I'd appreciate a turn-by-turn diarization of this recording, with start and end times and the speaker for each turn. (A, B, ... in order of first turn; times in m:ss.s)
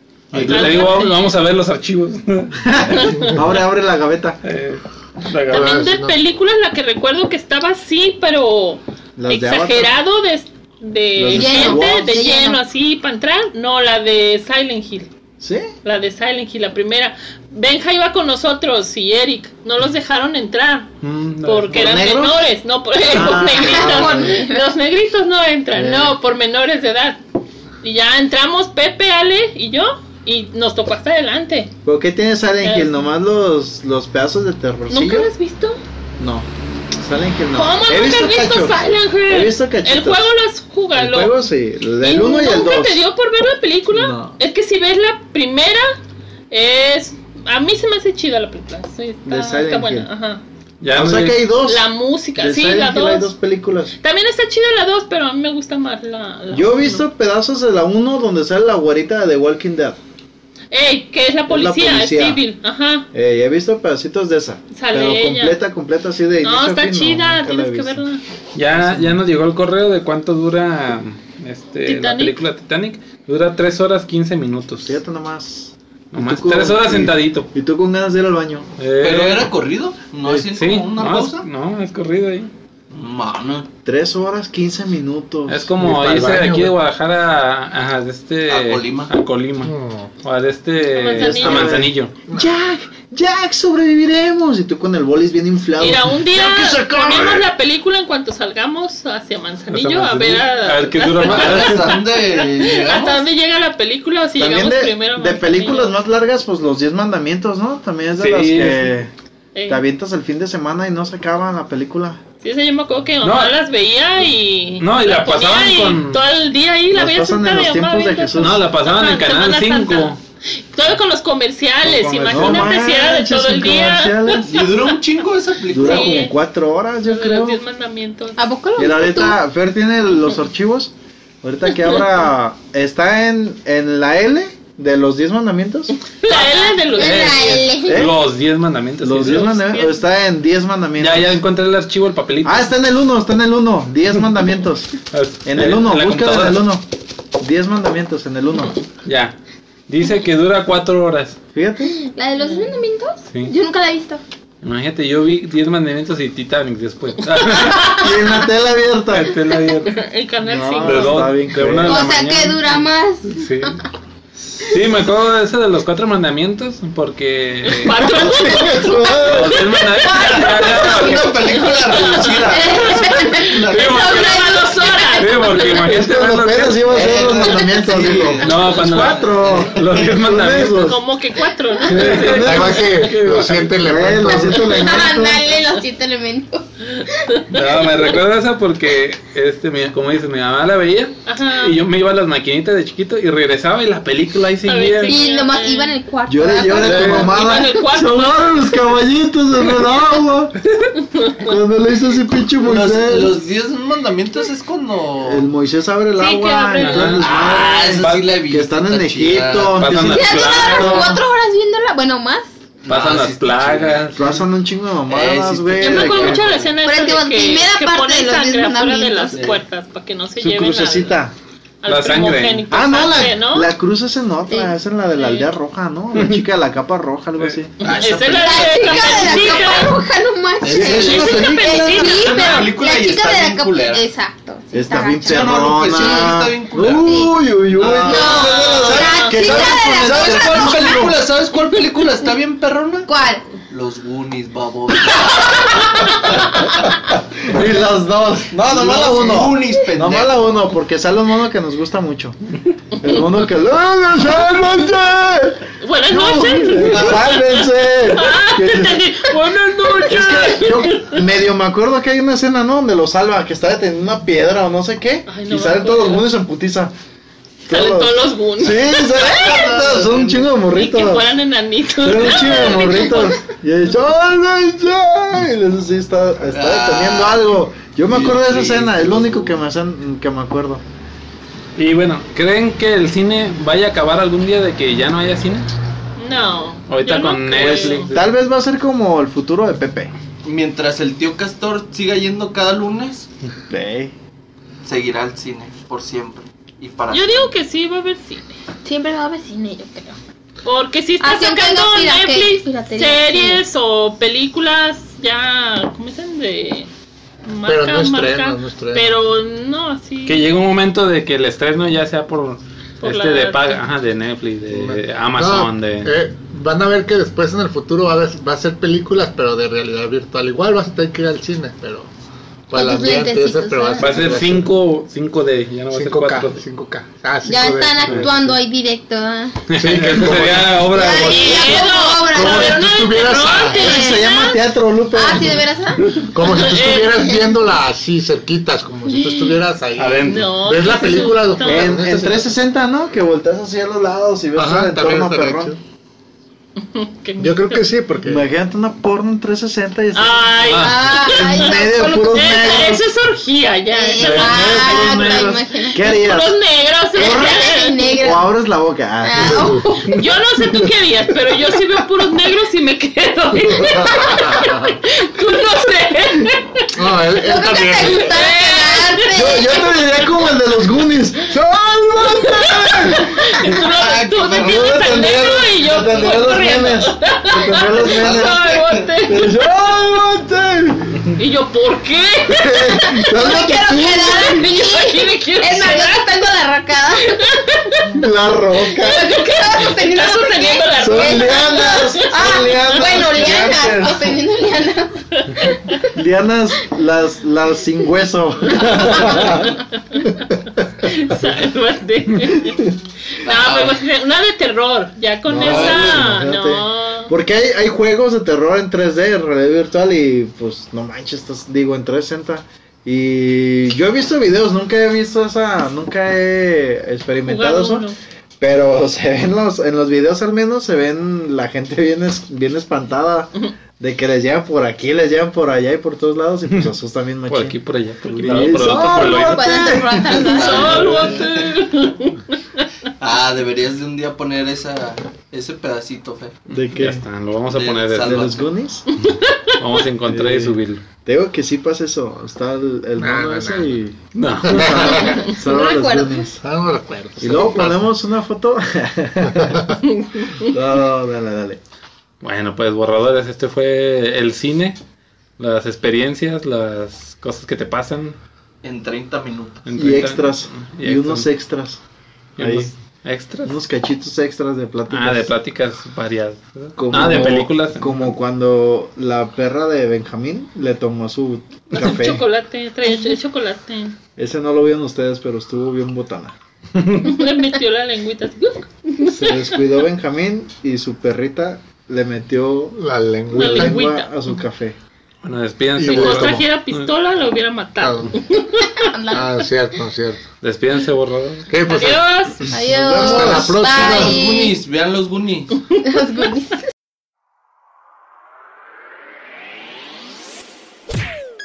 0:00.3-0:00.8 A
0:00.3-0:02.6 B
0:00.4-0:01.3 C
0:02.6-0:04.4 A
0:03.0-0:03.3 C
0:03.2-0:03.5 D
0:04.4-0:05.8 B
0:05.5-0:06.2 D
0:05.5-0:15.1 C
0:09.2-0:09.9 A
0:11.2-0:12.0 A
0:11.3-0:12.6 E
0:15.4-0:15.7 A
0:15.8-0:20.9 C
0:21.0-0:21.7 B
0:21.4-0:27.2 C
0:21.6-0:22.4 A
0:23.0-0:24.4 A
0:23.2-0:24.7 E
0:25.7-0:26.2 A
0:27.8-0:31.7 C
0:31.8-0:35.3 A
0:32.6-0:32.9 C
0:34.9-0:35.8 C
0:36.2-0:40.3 A
0:37.5-0:41.5 C
0:41.0-0:43.0 A
0:42.0-0:46.0 C
0:43.9-0:44.4 A
0:46.5-0:50.4 C
0:49.2-0:50.1 A
0:50.8-0:51.5 B
0:50.9-0:53.9 A
0:51.6-0:53.3 C
0:54.0-0:57.1 C
0:56.5-1:00.0 A
1:00.7-1:03.1 C
1:01.5-1:02.4 A
1:03.1-1:08.0 A
1:04.7-1:05.6 C
1:06.4-1:08.2 C
1:08.6-1:15.0 B
1:08.7-1:09.2 A
1:11.8-1:12.4 C
1:14.8-1:18.7 A
1:16.1-1:17.5 B
1:18.8-1:19.5 B
1:19.0-1:21.5 F
1:20.4-1:22.5 B
1:22.9-1:23.7 F
1:23.8-1:25.7 A
1:25.5-1:32.1 B
1:25.8-1:26.8 D
1:28.5-1:29.1 F
1:29.6-1:30.1 D
1:30.9-1:31.8 C
1:31.2-1:37.5 A
1:35.8-1:45.9 C
1:39.7-1:42.0 B
1:41.2-1:43.2 F
1:44.4-1:49.1 A
1:48.2-1:49.0 B
1:49.6-1:49.8 C
1:49.7-1:52.2 A
1:52.4-2:04.9 C
1:53.2-1:53.6 B
1:54.8-1:56.2 B
1:56.9-1:58.6 A
1:58.4-2:00.2 B
2:01.8-2:02.8 B
2:02.3-2:04.7 A
2:04.4-2:06.3 F
2:05.7-2:07.6 A
2:05.8-2:06.4 C
2:07.0-2:08.4 C
2:08.4-2:09.4 E
2:08.8-2:15.9 A
2:16.0-2:17.6 C
2:16.3-2:18.1 E
2:16.4-2:19.6 B
2:17.9-2:18.2 A
2:19.0-2:21.4 A
2:19.2-2:20.0 C
2:21.0-2:22.7 B
2:22.4-2:24.9 A
2:25.1-2:26.6 B
2:25.4-2:26.8 A
2:27.4-2:28.8 A
2:29.0-2:29.4 B
2:29.9-2:31.4 B
2:31.5-2:32.0 A
2:32.0-2:34.2 E
2:32.4-2:32.8 C
2:34.6-2:38.0 B
2:37.9-2:39.3 A
2:39.1-2:40.0 B
2:39.9-2:41.3 C
2:40.4-2:42.1 A
2:40.8-2:43.8 B
2:41.8-2:43.8 E
2:44.6-2:48.1 B
2:47.6-2:55.8 C
2:47.8-2:49.7 A
2:49.2-2:51.6 B
2:50.1-2:54.2 F
2:52.7-2:53.5 E
2:53.7-2:54.4 B
2:54.2-2:55.2 E
2:55.2-2:56.9 B
2:55.8-3:01.0 A
2:56.8-3:00.0 F
2:58.4-3:00.9 B
3:00.8-3:02.4 C
3:01.8-3:03.0 A
3:01.9-3:03.9 B
3:02.1-3:04.8 D
3:03.8-3:05.5 A
3:04.2-3:06.6 E
3:06.9-3:07.9 C
3:07.5-3:15.2 B
3:11.3-3:11.8 C
3:14.7-3:16.0 C
3:15.1-3:17.8 E
3:16.3-3:20.6 A
3:16.8-3:17.3 B
3:16.8-3:18.7 C
3:21.3-3:23.4 A
3:22.6-3:25.5 F
3:25.2-3:31.2 A
3:26.2-3:27.6 C
3:26.8-3:27.3 B
3:27.2-3:30.0 F
3:28.0-3:28.4 B
3:29.7-3:31.0 B
3:30.0-3:32.5 E
3:32.8-3:34.4 F
3:32.9-3:34.4 B
3:34.2-3:36.5 A
3:35.1-3:36.8 F
3:35.8-3:41.2 C
3:36.8-3:39.5 E
3:39.3-3:39.6 F
3:40.4-3:41.4 A
3:41.8-3:43.7 C
3:41.9-3:42.7 B
3:42.7-3:48.0 A
3:45.2-3:45.5 C
3:46.1-3:46.4 B
3:47.8-3:50.0 C
3:47.8-3:50.0 F
3:48.3-3:57.3 E
3:50.6-3:54.1 F
3:50.6-3:52.1 A
3:50.8-3:52.7 C
3:54.7-4:01.2 A
3:55.3-4:03.1 F
3:57.9-4:01.1 E
3:58.9-3:59.4 C
4:03.1-4:03.4 E
4:03.7-4:06.6 F
4:07.5-4:19.2 A
4:07.5-4:07.9 F
4:08.5-4:10.5 F
4:15.8-4:21.2 C
4:16.8-4:17.4 F
4:20.0-4:26.9 A
4:25.3-4:26.3 C
4:27.7-4:31.3 A
4:27.7-4:29.8 C
4:29.2-4:30.5 F
4:30.7-4:33.3 C
4:32.0-4:40.8 A
4:36.5-4:37.5 F
4:38.0-4:39.6 F
4:41.8-4:45.7 B
4:46.2-4:48.1 C
4:46.9-4:48.3 B
4:47.8-4:50.1 A
4:50.4-4:53.3 F
4:53.7-4:54.1 A
4:54.8-4:57.5 F
4:57.1-4:58.6 C
4:58.8-5:00.2 E
5:00.6-5:06.9 C
5:01.2-5:03.6 E
5:07.4-5:10.5 C
5:07.6-5:09.2 D
5:10.3-5:16.1 B
5:13.0-5:13.8 C
5:14.7-5:22.1 D
5:22.7-5:24.7 D
5:22.7-5:24.4 E
5:24.0-5:26.6 B
5:25.9-5:28.6 D
5:27.5-5:29.6 E
5:29.7-5:31.4 B
5:29.8-5:33.8 D
5:30.9-5:32.8 E
5:31.2-5:34.3 C
5:33.7-5:36.3 E
5:33.8-5:35.6 A
5:36.3-5:42.6 D
5:36.4-5:37.4 C
5:39.1-5:39.5 C
5:40.0-5:40.6 B
5:40.3-5:42.0 C
5:41.6-5:45.8 A
5:44.6-5:45.8 D
5:46.8-5:47.8 C
5:47.4-5:48.5 D
5:48.2-5:53.0 A
5:50.1-5:54.9 C
5:50.7-5:52.8 E
5:50.7-5:50.9 B
5:53.9-5:56.1 E
5:54.2-5:55.6 B
5:54.4-5:56.6 A
5:56.0-5:58.2 C
5:57.2-5:59.9 A
5:57.2-5:58.5 E
5:59.2-6:00.2 E
6:00.1-6:06.9 C
6:03.7-6:04.9 D
6:07.0-6:08.4 D
6:07.4-6:10.0 E
6:08.3-6:09.8 C
6:09.3-6:13.8 A
6:12.2-6:19.6 C
6:13.9-6:15.3 F
6:14.5-6:18.7 A
6:18.0-6:19.2 F
6:19.3-6:21.3 A
6:21.4-6:26.3 C
6:22.5-6:24.6 A
6:23.2-6:27.6 E
6:27.2-6:28.2 C
6:28.1-6:29.4 A
6:28.8-6:33.2 C
6:29.0-6:36.1 E
6:31.0-6:34.4 A
6:35.4-6:36.0 C
6:36.1-6:39.8 A
6:39.0-6:40.3 C
6:41.0-6:42.8 C
6:43.4-6:47.3 C
6:43.4-6:44.0 F
6:45.5-7:07.8 A
6:45.6-6:46.4 F
6:57.4-6:58.2 C
7:07.5-7:09.9 B
7:08.3-7:11.3 A
7:08.8-7:11.0 E
7:10.3-7:11.7 F
7:10.4-7:12.9 C
7:11.0-7:11.4 B
7:13.2-7:16.6 F
7:16.7-7:17.2 A
7:16.8-7:18.5 B
7:17.7-7:18.7 F
7:18.2-7:19.1 A
7:19.1-7:19.8 C
7:19.8-7:21.0 B
7:20.3-7:26.6 A
7:23.2-7:24.0 D
7:24.3-7:25.4 B
7:24.6-7:25.2 D
7:25.2-7:26.5 E
7:26.6-7:28.1 D
7:27.4-7:31.8 A
7:32.4-7:35.0 B
7:35.6-7:38.4 B
7:38.8-7:39.9 F
7:39.8-7:41.5 B
7:40.0-7:42.0 A
7:42.6-7:43.8 B
7:42.6-7:42.9 A
7:43.6-7:45.5 A
7:45.1-7:48.3 B
7:47.0-7:52.4 A
7:51.9-7:54.2 C
7:54.4-7:56.6 A
7:57.0-7:57.3 B
7:57.2-7:59.8 C
7:59.2-8:05.0 A
8:03.0-8:04.1 D
8:03.5-8:04.3 C
8:05.4-8:07.1 B
8:06.0-8:06.7 D
8:06.0-8:09.2 C
8:08.0-8:08.4 D
8:09.0-8:09.5 E
8:09.3-8:10.4 D
8:10.6-8:11.7 B
8:11.7-8:12.7 D
8:11.9-8:12.6 C
8:12.7-8:14.8 E
8:12.7-8:13.9 A
8:13.2-8:14.4 D
8:13.9-8:15.8 F
8:15.9-8:16.2 C
8:16.0-8:16.8 E